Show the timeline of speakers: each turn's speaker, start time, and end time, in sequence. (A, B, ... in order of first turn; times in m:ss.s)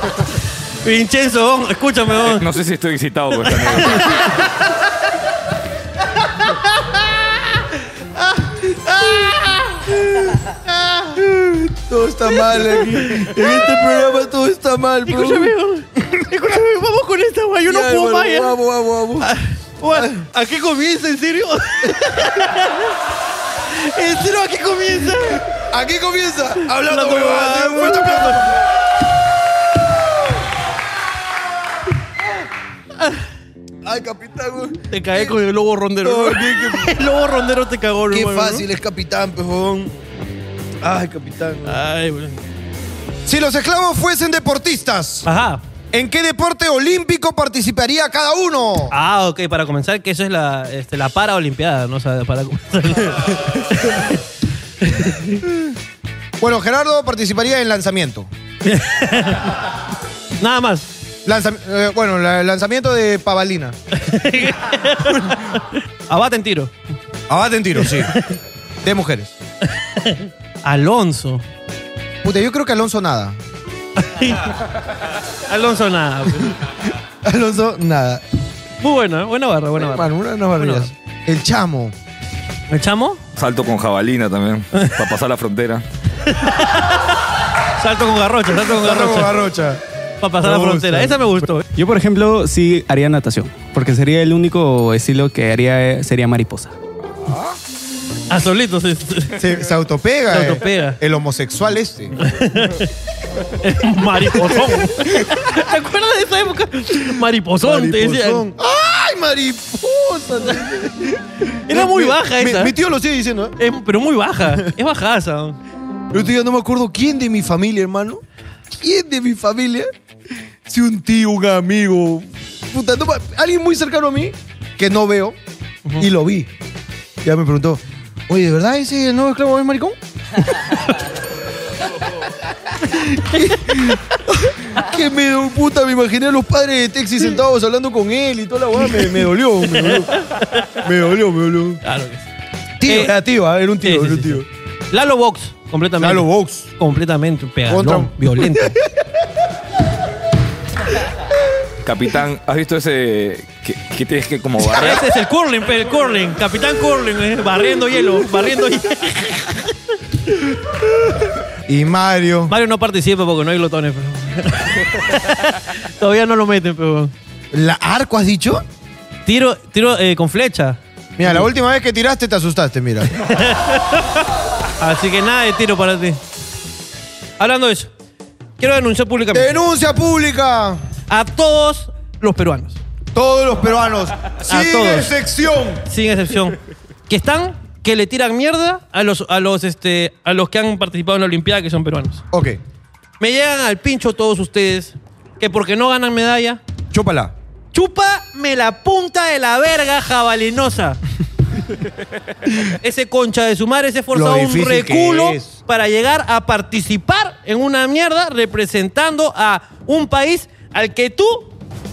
0:00.8-0:02.5 A
0:02.2-0:04.4 B
0:06.5-0:07.1 A
0:08.4-0:09.9 A
0:10.7-0:11.2 A
0:11.2-0:15.5 C
0:12.4-0:14.1 A
0:15.1-0:18.6 A
0:17.7-0:19.3 C
0:19.2-0:23.0 A
0:23.6-0:25.4 A
0:25.4-0:28.6 C
0:26.8-0:28.5 A
0:33.8-0:35.4 C
0:34.9-0:38.6 A
0:36.0-0:37.0 C
0:38.1-0:40.0 C
0:40.8-0:41.8 C
0:41.6-0:42.4 A
0:43.3-0:45.3 C
0:45.2-0:45.6 A
0:45.9-0:49.0 C
0:48.9-0:54.2 A
0:54.8-0:55.4 A
0:56.4-0:58.3 C
0:58.6-0:59.5 A
1:00.4-1:00.9 A
1:01.2-1:03.8 C
1:03.9-1:06.7 A
1:07.3-1:08.1 C
1:07.9-1:08.4 A
1:08.8-1:09.4 C
1:09.7-1:11.4 A
1:12.2-1:13.4 C
1:14.0-1:14.6 A
1:15.5-1:16.6 A
1:17.2-1:18.2 C
1:18.8-1:20.9 A
1:19.8-1:22.0 C
1:22.7-1:23.2 A
1:23.4-1:25.8 B
1:26.2-1:27.1 A
1:27.8-1:29.4 A
1:28.6-1:29.8 C
1:30.2-1:31.6 A
1:30.4-1:31.3 C
1:31.7-1:36.8 D
1:38.3-1:39.4 A
1:39.4-1:42.2 C
1:40.3-1:41.0 A
1:42.2-1:42.9 A
1:43.6-1:48.4 A
1:44.5-1:45.2 C
1:47.6-1:53.6 C
1:51.7-1:52.7 A
1:53.6-1:55.6 A
1:56.1-1:58.2 C
1:58.8-1:59.9 C
2:00.7-2:05.4 C
2:06.0-2:06.5 C
2:07.2-2:10.0 C
2:12.8-2:20.1 C
2:19.7-2:20.7 A
2:20.8-2:21.8 C
2:21.8-2:22.3 A
2:22.8-2:24.4 C
2:22.8-2:23.1 A
2:23.8-2:28.8 A
2:26.0-2:26.7 C
2:27.7-2:28.9 C
2:31.8-2:35.1 B
2:34.7-2:39.8 A
2:41.7-2:42.5 C
2:42.5-2:47.1 A
2:47.5-2:48.6 C
2:49.3-2:50.8 A
2:51.2-2:53.2 C
2:53.2-2:54.3 A
2:54.8-2:56.2 A
2:57.4-2:57.9 A
2:58.6-2:59.6 A
2:59.3-3:00.8 C
3:01.1-3:02.8 A
3:03.1-3:05.8 C
3:04.4-3:05.2 A
3:05.9-3:12.2 A
3:12.3-3:12.6 C
3:13.2-3:16.6 A
3:16.9-3:17.3 C
3:17.7-3:21.0 A
3:22.6-3:31.5 A
3:24.1-3:25.6 C